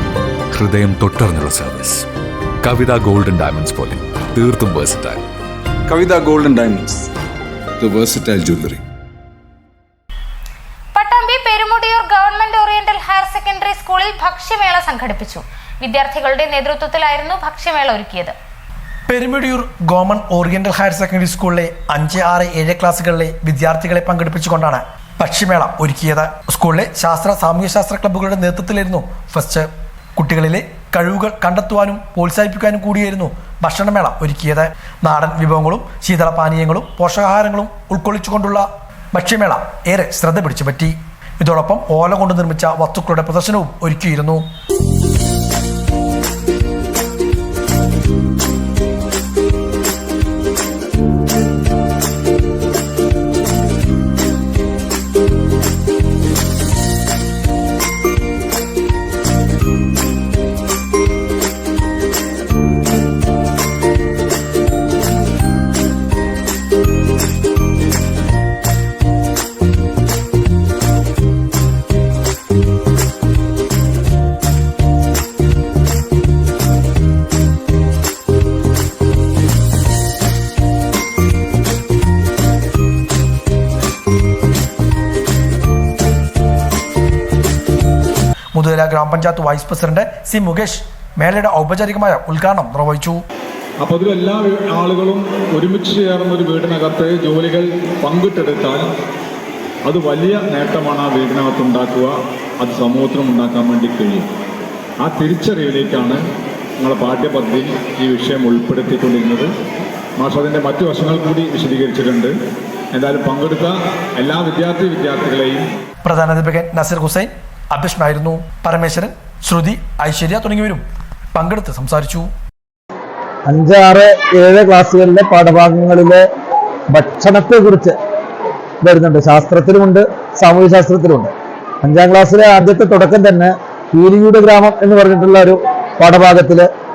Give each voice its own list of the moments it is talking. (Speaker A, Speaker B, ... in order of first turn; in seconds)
Speaker A: 0.5-2.1, 2.6-5.2
Speaker B: 5.9-7.0, 7.8-8.8
Speaker C: 10.9-18.4
Speaker D: 19.1-44.5, 88.5-93.2, 116.0-120.8, 121.3-122.3
Speaker E: 93.8-98.8, 99.9-104.3, 105.0-106.2, 106.8-109.5, 110.2-112.3, 112.9-115.7
Speaker F: 123.5-126.2, 126.9-128.0, 128.8-136.7